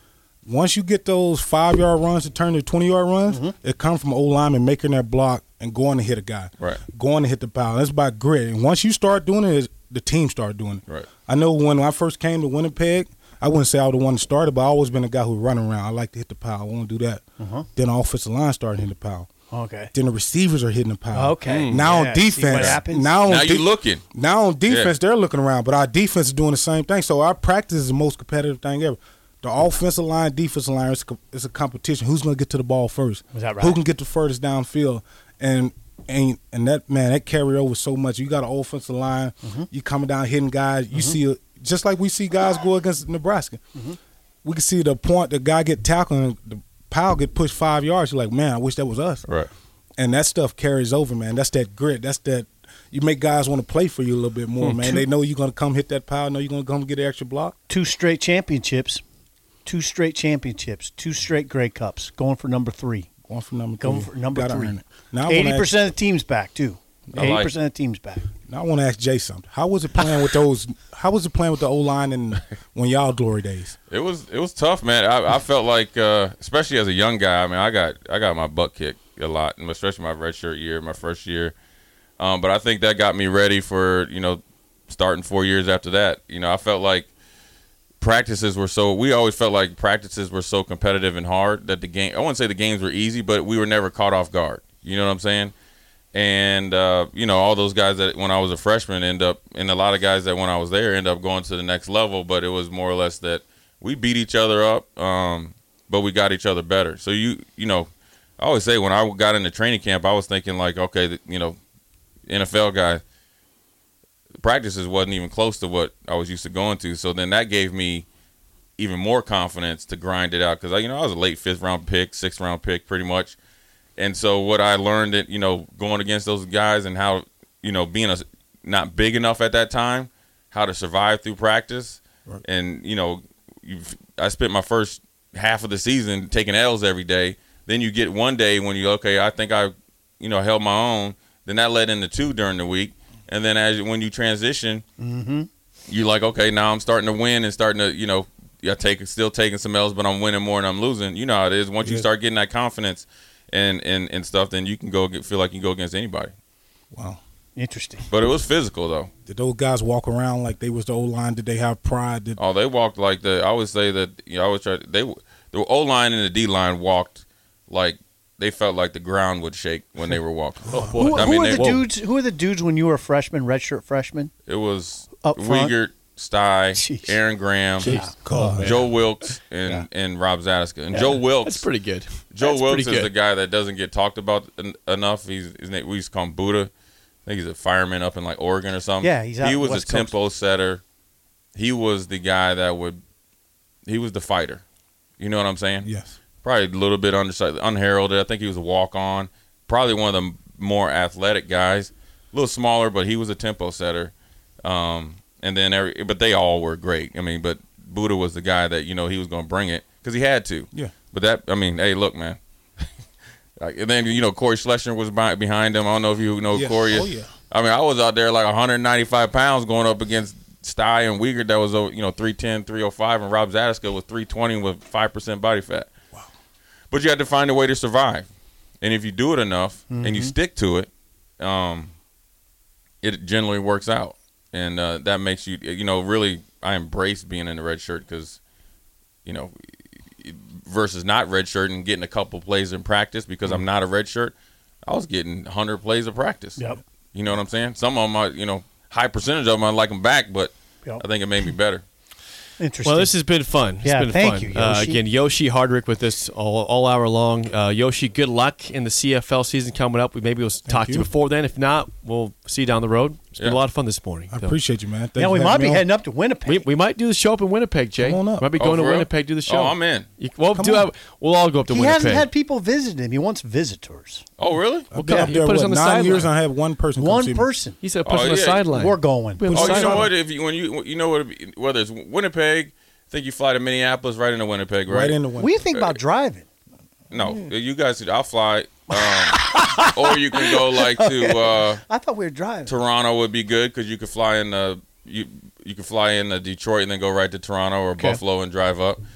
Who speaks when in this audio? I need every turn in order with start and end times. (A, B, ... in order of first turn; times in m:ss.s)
0:00.4-0:17.2 A
0:03.3-0:03.5 B
0:17.4-0:17.7 B
0:17.8-0:19.3 A
0:19.5-0:19.9 B
0:19.9-0:43.6 A
0:21.1-0:23.2 B
0:21.4-0:21.8 C
0:22.5-0:24.0 D
0:24.7-0:24.9 D
0:33.3-0:33.8 B
0:44.4-0:49.2 A
0:50.0-0:57.6 A
0:54.6-0:55.0 C
0:57.7-0:59.0 B
0:59.6-1:03.1 B
1:03.3-1:05.7 A
1:03.8-1:04.7 B
1:05.3-1:08.3 B
1:07.1-1:07.5 D
1:08.5-1:13.8 A
1:13.9-1:21.5 D
1:22.2-1:27.1 D
1:28.0-1:35.5 D
1:36.1-1:51.6 D
1:52.3-1:53.0 D
1:54.4-1:58.0 D
1:58.8-2:03.4 D
2:04.0-2:24.8 D
2:25.0-2:25.5 B
2:25.9-2:36.3 D
2:31.8-2:32.1 A
2:36.9-2:37.2 A
2:37.6-2:38.0 B
2:38.1-2:39.1 D
2:39.2-2:42.4 A
2:42.4-2:51.8 D
2:50.7-2:51.0 A
2:50.7-2:54.3 B
2:50.7-2:51.7 C
2:54.5-2:57.9 D
2:55.2-2:55.7 B
2:56.7-2:57.1 B
2:57.8-2:58.6 B
2:57.8-2:58.9 C
2:58.2-2:58.7 A
2:58.6-3:01.6 D
3:00.9-3:01.2 B
3:01.3-3:03.1 C
3:02.3-3:06.7 D
3:07.2-3:10.8 D
3:09.0-3:10.1 B
3:11.6-3:13.0 D
3:13.8-3:14.6 D
3:15.2-3:15.9 D
3:15.8-3:16.2 A
3:16.4-3:24.1 D
3:24.6-3:32.4 D
3:33.6-3:45.9 D
3:36.5-3:37.3 A
3:46.9-3:48.3 D
3:48.8-3:51.9 D
3:49.9-3:50.3 B
3:53.0-3:58.4 D
3:59.2-3:59.5 D
4:00.2-4:04.3 D
4:04.8-4:06.6 D
4:07.1-4:11.8 D
4:12.6-4:13.1 B
4:12.8-4:24.6 C
4:13.8-4:15.0 B
4:20.7-4:21.1 A
4:24.3-4:25.8 A
4:25.2-4:26.7 B
4:26.4-4:32.3 C
4:28.0-4:28.5 A
4:28.6-4:30.1 D
4:30.5-4:30.9 A
4:31.7-4:34.2 B
4:34.4-4:34.9 D
4:34.9-4:37.5 A
4:35.0-4:36.3 C
4:35.0-4:35.4 B
4:37.0-4:37.8 B
4:37.8-4:40.1 C
4:38.0-4:38.7 D
4:38.7-4:40.0 B
4:39.5-4:45.2 D
4:44.9-4:45.6 A
4:45.4-4:46.4 B
4:47.1-4:51.8 D
4:47.2-4:47.5 A
4:48.9-4:52.7 B
4:52.7-4:59.0 D